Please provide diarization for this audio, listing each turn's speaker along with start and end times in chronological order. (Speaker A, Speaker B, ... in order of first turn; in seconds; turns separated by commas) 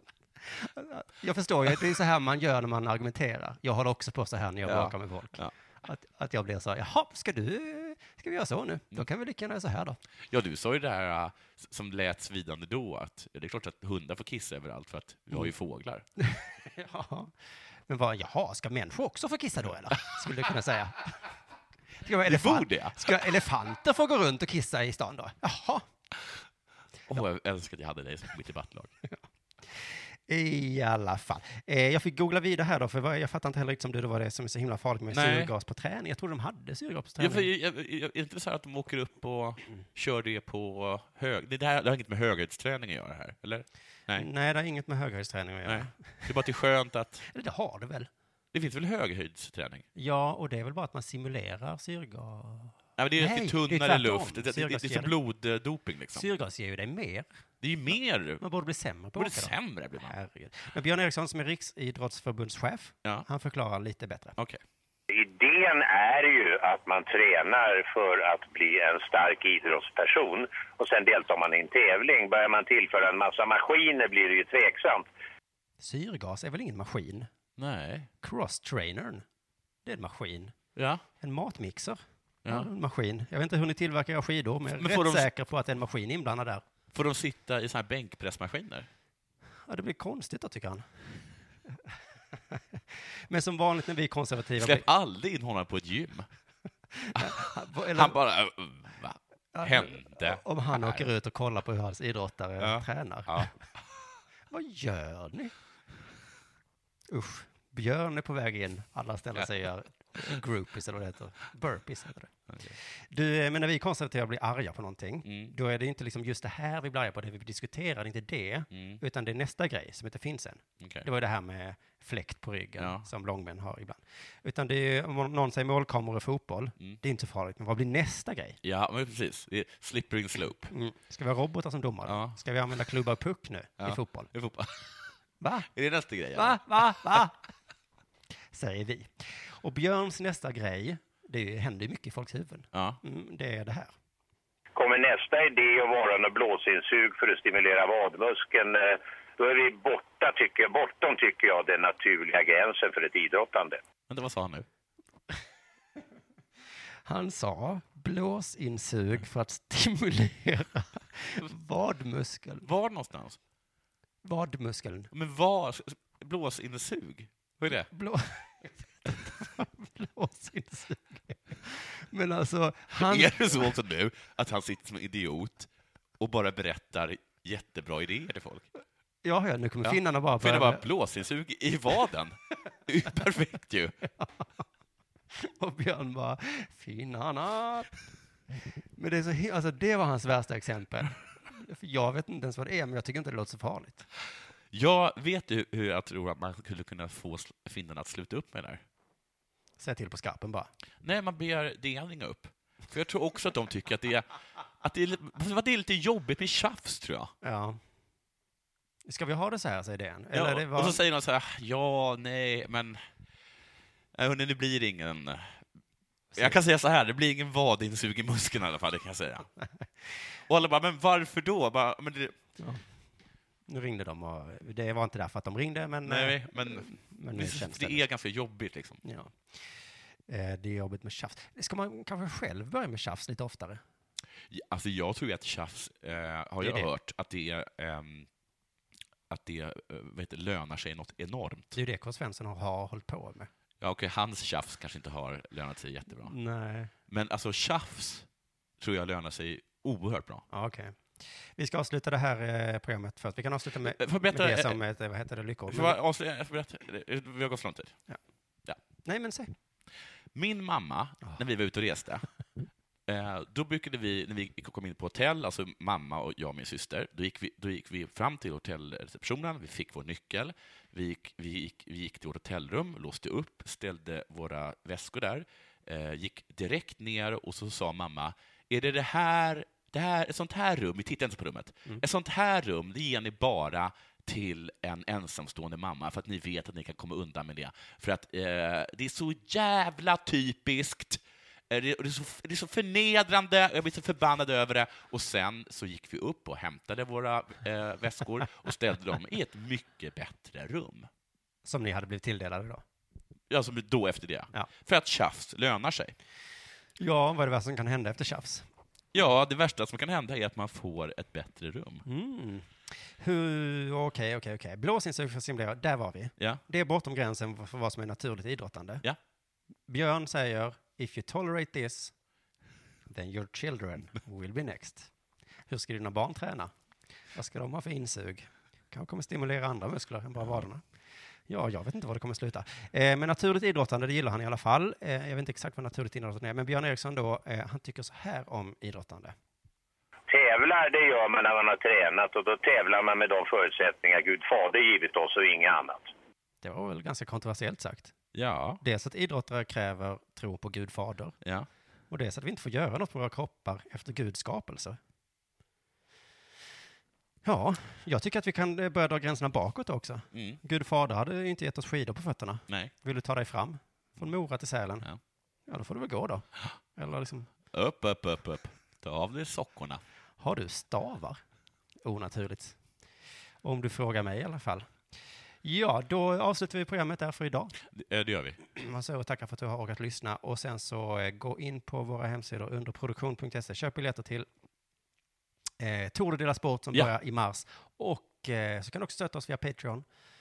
Speaker A: 0.4-10.0, Speaker B: 4.7-5.5, Speaker B: 10.3-16.1, Speaker A: 16.2-17.4, Speaker A: 17.9-21.2, Speaker A: 22.0-25.9, Speaker B: 22.2-23.3, Speaker B: 27.1-29.0, Speaker A: 29.8-37.5, Speaker B: 35.1-35.5, Speaker B: 37.2-44.3, Speaker A: 44.1-46.3, Speaker B: 45.6-47.3, Speaker A: 47.3-48.1, Speaker B: 48.5-49.9, Speaker A: 50.0-55.1, Speaker B: 53.0-56.3, Speaker A: 56.1-57.3, Speaker B: 57.6-58.4, Speaker A: 58.4-64.4, Speaker B: 59.2-60.2, Speaker C: 65.1-75.1, Speaker A: 75.8-77.3, Speaker B: 77.6-78.1, Speaker A: 78.2-79.2, Speaker A: 79.8-80.5, Speaker B: 80.8-81.0, Speaker A: 81.2-86.6, Speaker B: 82.4-82.7, Speaker B: 84.8-85.3, Speaker B: 86.9-88.9, Speaker A: 89.7-90.9, Speaker A: 92.5-94.8, Speaker B: 94.6-96.3, Speaker A: 96.9-98.2, Speaker B: 97.1-101.1, Speaker A: 99.5-103.6, Speaker B: 102.6-103.5, Speaker A: 104.5-105.5, Speaker A: 107.1-128.6, Speaker B: 112.5-112.8, Speaker B: 115.2-115.5, Speaker B: 118.7-119.0, Speaker B: 120.8-121.1, Speaker B: 122.8-123.1, Speaker B: 128.6-130.7, Speaker A: 130.7-134.3, Speaker B: 132.1-132.4, Speaker B: 133.8-135.2, Speaker A: 135.4-135.7, Speaker B: 135.7-137.3, Speaker A: 136.3-137.4, Speaker A: 138.5-143.9, Speaker B: 142.7-143.0, Speaker C: 144.8-153.8, Speaker B: 154.1-154.7, Speaker A: 157.1-162.7, Speaker B: 162.6-163.4, Speaker A: 164.2-165.1, Speaker B: 165.1-167.9, Speaker A: 167.7-173.8, Speaker B: 172.9-178.7, Speaker A: 179.2-180.8, Speaker B: 179.8-184.0, Speaker A: 185.3-188.0, Speaker A: 188.9-194.1, Speaker B: 194.7-198.8, Speaker A: 199.8-200.7, Speaker B: 201.0-207.3, Speaker A: 207.4-207.8, Speaker A: 209.1-211.0, Speaker B: 210.3-213.0, Speaker B: 214.1-215.7, Speaker B: 216.4-219.5, Speaker B: 220.4-222.4, Speaker A: 222.6-222.8, Speaker A: 223.7-228.0, Speaker B: 226.0-229.0, Speaker A: 229.0-229.7, Speaker A: 230.3-233.8, Speaker B: 234.5-238.3, Speaker A: 236.6-236.9, Speaker B: 239.3-241.8, Speaker A: 241.7-243.5, Speaker B: 243.8-246.3, Speaker A: 246.2-246.9, Speaker B: 247.1-248.3, Speaker B: 248.8-250.5, Speaker A: 250.5-256.0, Speaker B: 253.8-254.8, Speaker B: 255.7-258.0, Speaker A: 259.0-259.5, Speaker B: 260.3-262.3, Speaker B: 263.1-301.1, Speaker A: 301.6-302.8, Speaker B: 303.5-306.2, Speaker A: 307.0-308.7, Speaker B: 309.1-312.1, Speaker A: 312.1-319.0, Speaker A: 319.9-322.1, Speaker A: 323.1-325.1, Speaker A: 325.7-326.7, Speaker A: 327.3-330.8, Speaker A: 331.5-339.4, Speaker C: 340.3-346.1, Speaker A: 346.6-348.1, Speaker B: 348.3-348.8, Speaker A: 348.8-351.4, Speaker B: 351.4-351.7, Speaker A: 352.1-355.0, Speaker A: 357.4-365.1, Speaker B: 360.3-360.6, Speaker A: 365.7-367.5, Speaker B: 367.7-370.0, Speaker A: 370.4-371.4, Speaker A: 372.0-372.8, Speaker A: 373.6-375.0, Speaker A: 375.6-377.8, Speaker B: 377.9-378.6, Speaker A: 378.7-384.5, Speaker A: 385.8-390.1